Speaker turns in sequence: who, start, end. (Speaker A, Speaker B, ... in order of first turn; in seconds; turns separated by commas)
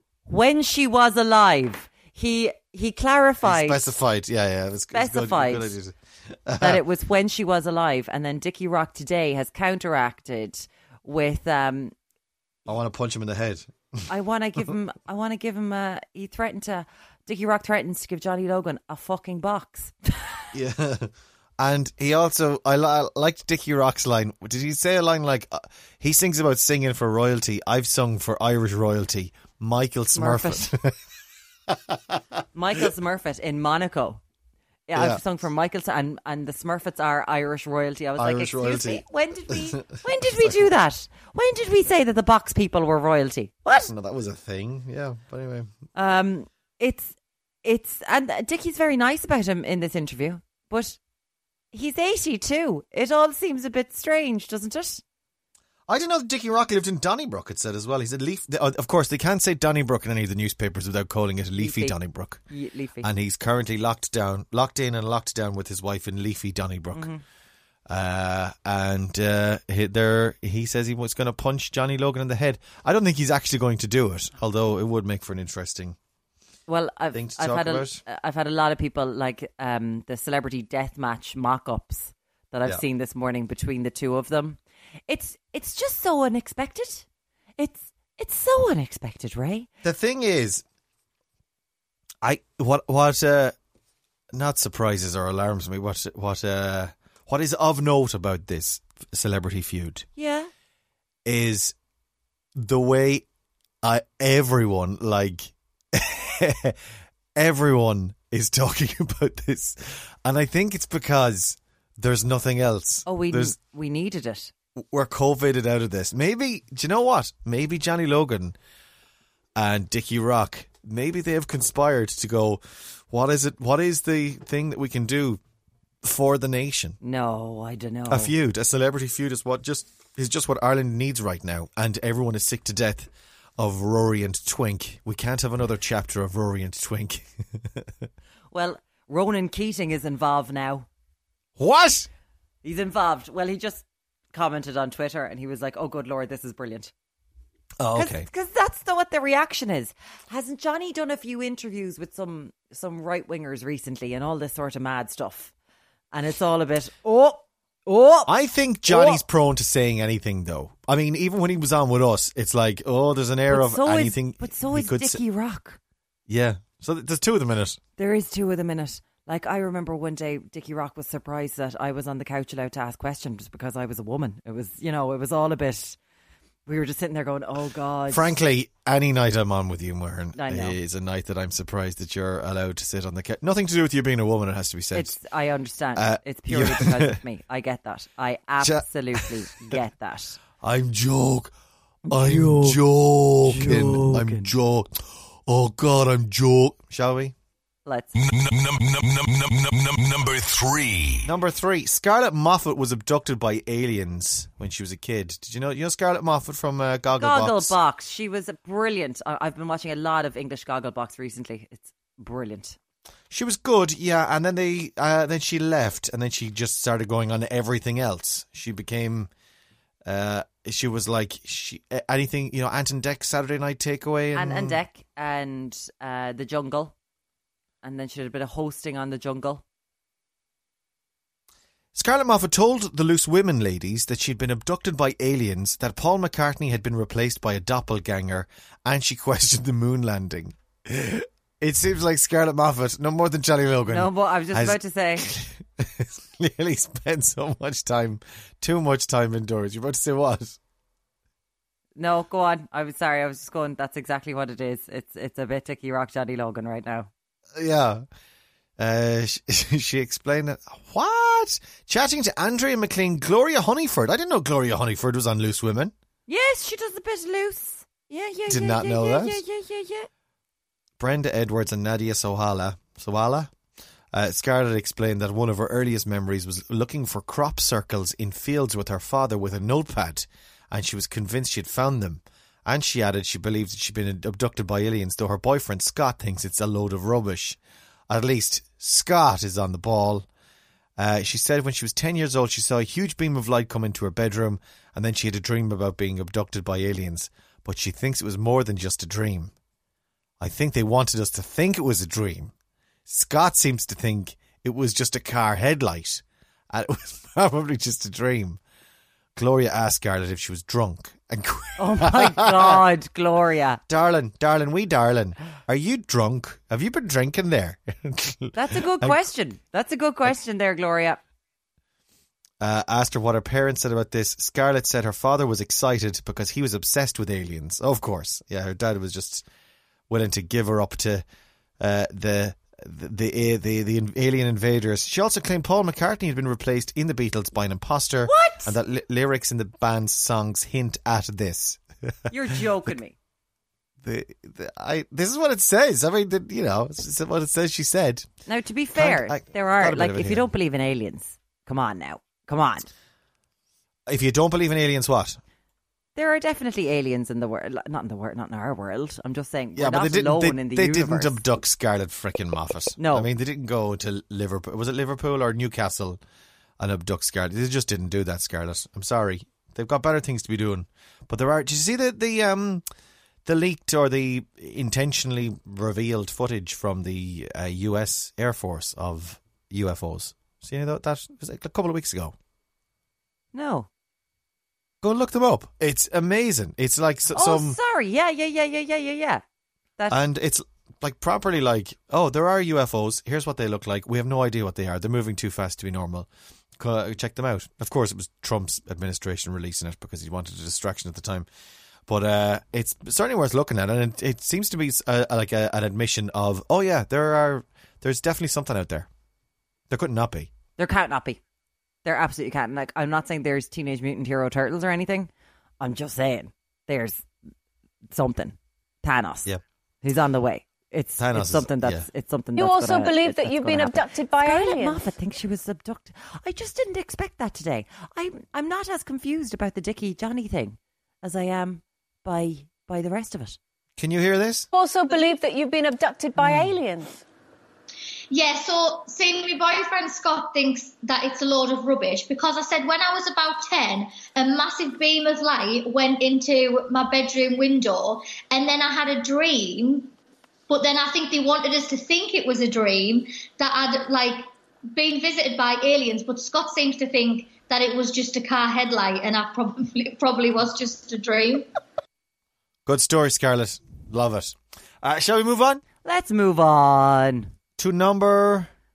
Speaker A: 0.3-3.9, Speaker B: 3.4-6.8, Speaker A: 4.9-5.7, Speaker A: 6.6-11.9, Speaker B: 12.7-14.1, Speaker A: 14.1-20.4, Speaker B: 20.5-31.0, Speaker A: 30.1-30.7, Speaker B: 31.7-32.2, Speaker A: 32.5-34.2, Speaker A: 34.9-43.9, Speaker B: 34.9-35.2, Speaker B: 38.2-40.7, Speaker B: 43.8-45.7, Speaker A: 45.9-51.0, Speaker A: 51.7-55.0, Speaker B: 55.9-62.4, Speaker A: 61.6-62.0, Speaker A: 62.5-63.1, Speaker B: 63.0-67.1, Speaker A: 66.9-67.2, Speaker B: 67.9-76.0, Speaker A: 76.7-87.0, Speaker B: 77.1-78.0, Speaker A: 87.6-89.7, Speaker B: 89.8-90.6, Speaker B: 92.2-93.5, Speaker B: 94.3-100.0, Speaker A: 100.2-100.5, Speaker B: 101.2-101.7, Speaker B: 102.5-103.2, Speaker B: 103.8-106.8, Speaker B: 107.3-113.5, Speaker A: 113.0-114.5, Speaker B: 114.9-118.5, Speaker B: 119.5-125.4, Speaker B: 126.0-127.0, Speaker A: 127.0-128.3, Speaker B: 128.1-137.9, Speaker A: 138.5-140.9, Speaker B: 141.6-142.1, Speaker A: 142.6-146.9, Speaker B: 147.8-148.3, Speaker A: 147.9-155.5, Speaker A: 156.1-158.3, Speaker B: 158.3-165.2, Speaker A: 158.9-159.2, Speaker A: 163.5-165.8, Speaker B: 166.3-167.8, Speaker A: 168.0-176.0, Speaker A: 176.7-178.3, Speaker B: 178.1-185.2, Speaker A: 180.3-180.8, Speaker A: 184.9-190.4, Speaker B: 185.9-187.2, Speaker B: 188.6-189.8, Speaker B: 190.6-191.5, Speaker A: 192.1-192.8, Speaker B: 192.1-197.3, Speaker A: 193.4-194.5, Speaker A: 197.8-198.1, Speaker C: 198.1-201.3, Speaker B: 201.2-207.7, Speaker A: 207.2-212.8, Speaker B: 213.3-219.3, Speaker B: 220.0-224.8, Speaker A: 224.3-226.9, Speaker A: 227.8-229.6, Speaker B: 231.9-250.6, Speaker A: 243.9-245.3, Speaker A: 251.9-257.1, Speaker B: 257.5-258.0, Speaker B: 258.8-265.9, Speaker A: 266.3-270.1, Speaker B: 268.5-269.4, Speaker B: 271.0-273.5, Speaker B: 274.1-290.3, Speaker B: 291.0-299.5, Speaker B: 300.4-302.5, Speaker B: 303.1-308.6, Speaker B: 309.4-312.8, Speaker A: 311.8-313.8, Speaker B: 313.9-319.2, Speaker A: 318.5-321.2, Speaker B: 322.6-329.4, Speaker B: 330.1-331.2, Speaker B: 331.8-342.6, Speaker A: 338.2-338.7, Speaker A: 342.3-343.1, Speaker B: 344.0-348.3, Speaker A: 348.4-352.9, Speaker B: 348.9-350.5, Speaker B: 354.1-355.4, Speaker A: 356.1-361.4, Speaker B: 359.7-366.2, Speaker A: 363.0-363.3, Speaker B: 366.8-372.8, Speaker B: 373.4-382.3, Speaker A: 383.5-383.9, Speaker B: 385.0-387.8, Speaker A: 387.3-389.4, Speaker B: 390.1-401.5, Speaker B: 402.1-409.1, Speaker B: 409.9-410.5, Speaker A: 410.8-411.4, Speaker A: 412.0-417.2, Speaker A: 418.1-419.5, Speaker A: 420.0-433.6, Speaker B: 421.2-422.1, Speaker D: 422.6-425.1, Speaker B: 434.0-434.7, Speaker D: 434.7-437.2, Speaker B: 436.4-436.7, Speaker E: 438.3-450.1, Speaker E: 450.7-461.7, Speaker B: 462.9-465.8, Speaker A: 466.0-467.5, Speaker B: 467.8-468.7